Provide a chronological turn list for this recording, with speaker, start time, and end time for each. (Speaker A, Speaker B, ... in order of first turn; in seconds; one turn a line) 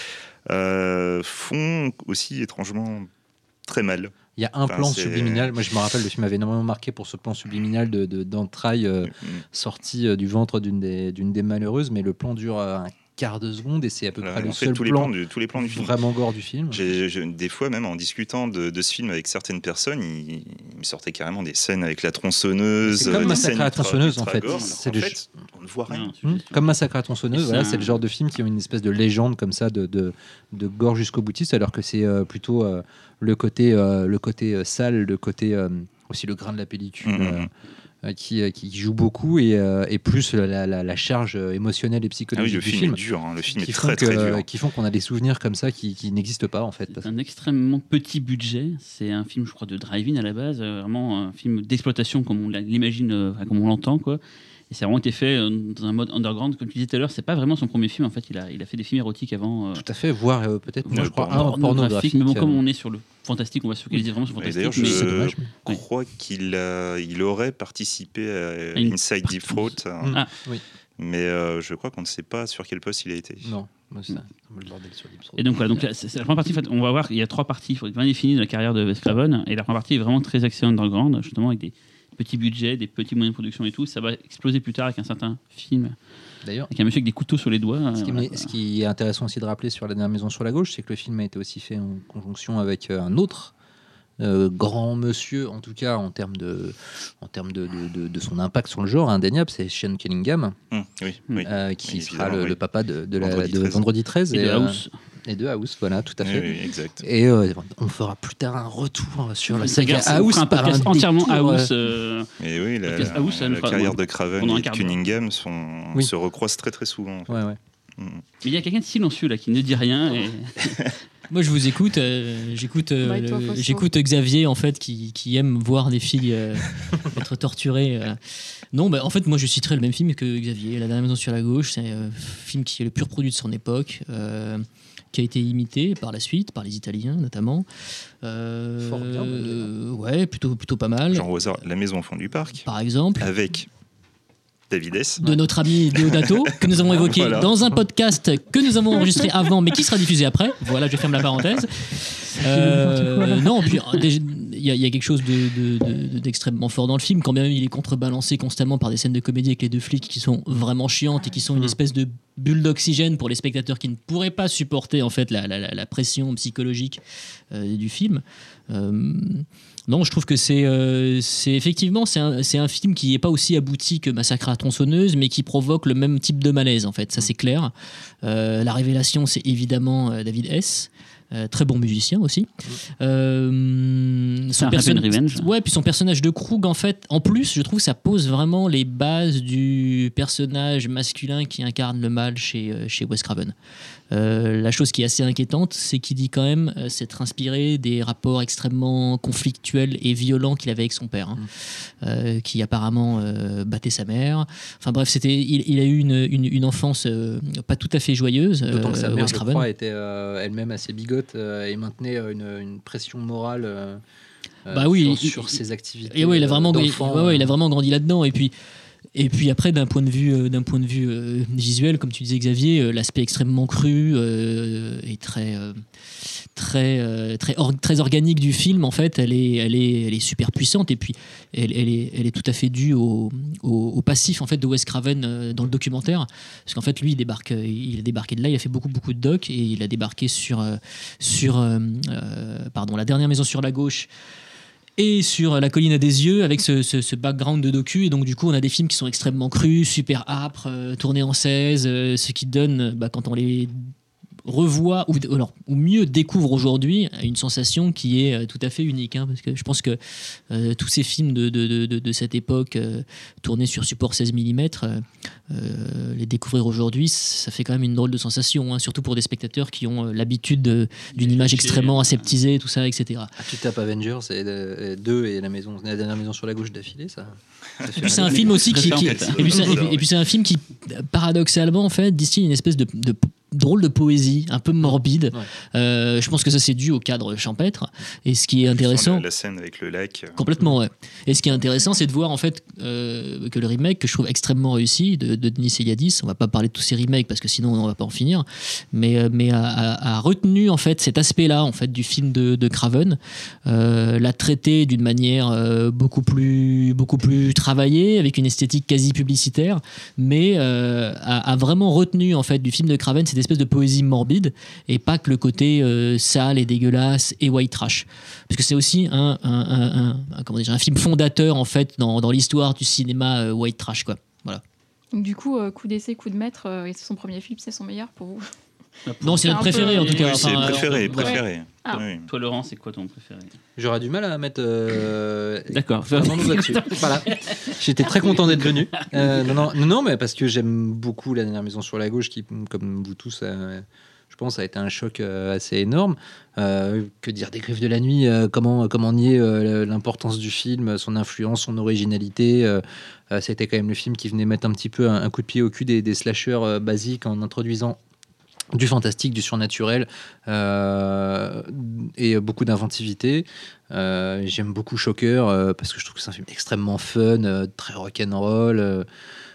Speaker A: 0.5-3.1
Speaker A: 3.7-4.1
Speaker B: 4.4-16.9
Speaker A: 4.7-5.5
Speaker A: 9.1-9.4
Speaker A: 14.2-15.9
Speaker A: 16.7-26.1
Speaker B: 22.9-25.3
Speaker C: 23.1-23.4
Speaker C: 24.4-24.8
Speaker C: 25.9-26.7
Speaker B: 26.2-37.5
Speaker C: 27.3-28.0
Speaker A: 37.0-37.5
Speaker B: 38.0-43.0
Speaker A: 42.4-44.5
Speaker B: 43.5-47.1
Speaker C: 46.9-59.8
Speaker B: 59.8-62.6
Speaker C: 60.9-65.1
Speaker A: 60.9-61.5
Speaker A: 64.4-70.2
Speaker B: 64.7-65.5
Speaker C: 68.8-70.3
Speaker B: 70.0-70.6
Speaker A: 71.0-73.5
Speaker B: 73.4-75.5
Speaker C: 75.4-86.0
Speaker B: 86.4-86.7
Speaker C: 86.7-88.5
Speaker B: 88.0-93.5
Speaker B: 94.2-100.6
Speaker A: 100.7-102.6
Speaker B: 101.5-111.7
Speaker A: 103.2-103.8
Speaker C: 104.3-104.9
Speaker A: 106.2-107.1
Speaker C: 109.6-112.3
Speaker A: 112.4-117.4
Speaker C: 112.8-115.1
Speaker B: 117.3-117.6
Speaker A: 118.0-118.2
Speaker C: 118.4-120.9
Speaker D: 121.3-128.2
Speaker E: 123.0-123.9
Speaker D: 128.7-137.7
Speaker D: 138.2-141.6
Speaker B: 138.8-139.7
Speaker A: 141.1-142.7
Speaker D: 142.7-143.3
Speaker A: 143.2-143.7
Speaker A: 144.7-145.2
Speaker D: 145.2-177.7
Speaker A: 145.9-147.5
Speaker C: 152.2-154.0
Speaker D: 178.2-193.5
Speaker C: 184.6-185.5
Speaker D: 194.1-201.4
Speaker D: 202.0-209.7
Speaker B: 208.7-214.0
Speaker B: 214.7-217.5
Speaker D: 214.7-215.6
Speaker D: 216.1-218.5
Speaker D: 219.2-244.1
Speaker D: 245.0-253.9
Speaker D: 254.4-260.0
Speaker D: 260.5-273.4
Speaker C: 271.1-272.3
Speaker B: 273.4-278.6
Speaker A: 277.8-280.1
Speaker D: 278.0-289.2
Speaker C: 278.1-279.8
Speaker A: 288.7-290.4
Speaker D: 290.4-324.6
Speaker E: 325.1-328.5
Speaker C: 329.1-331.1
Speaker D: 329.2-331.4
Speaker E: 329.4-330.2
Speaker A: 330.2-332.3
Speaker E: 331.1-332.0
Speaker C: 331.9-333.6
Speaker B: 333.8-358.0
Speaker C: 335.7-339.7
Speaker B: 358.7-369.1